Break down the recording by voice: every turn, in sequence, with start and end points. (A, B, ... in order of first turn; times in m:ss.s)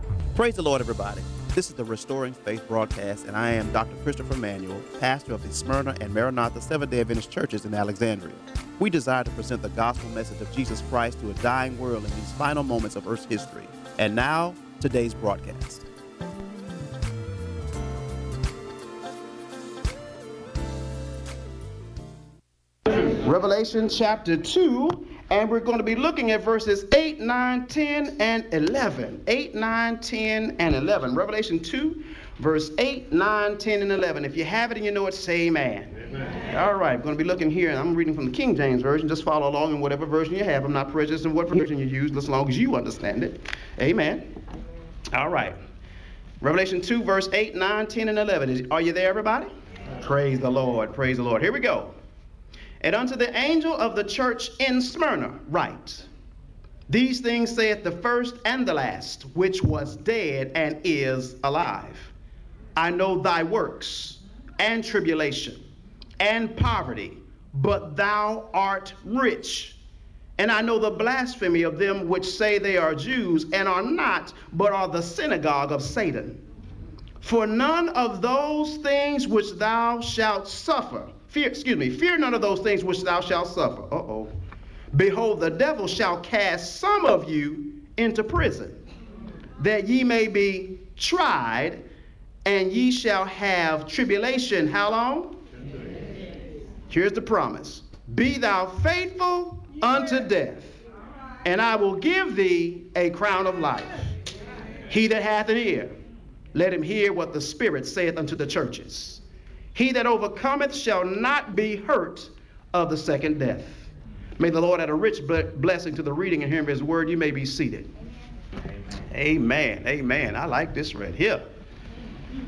0:00.3-0:15.8 A
0:22.9-0:35.9 A
0:36.5-0:44.3 A
0:45.1-0:45.6 A
0:46.4-0:51.9 A
0:52.8-0:56.1 A
0:56.9-1:02.1 A
1:02.7-1:05.6 A
1:06.2-1:09.8 A
1:10.4-1:16.4 A
1:17.2-1:24.3 A
1:24.9-1:28.8 A
1:29.6-1:31.8 A
1:32.4-1:35.4 A
1:36.9-1:40.8 A
1:41.4-1:44.1 A
1:44.9-1:45.9 A
1:46.5-1:49.2 A
1:49.7-1:57.9 A
1:59.1-2:01.4 A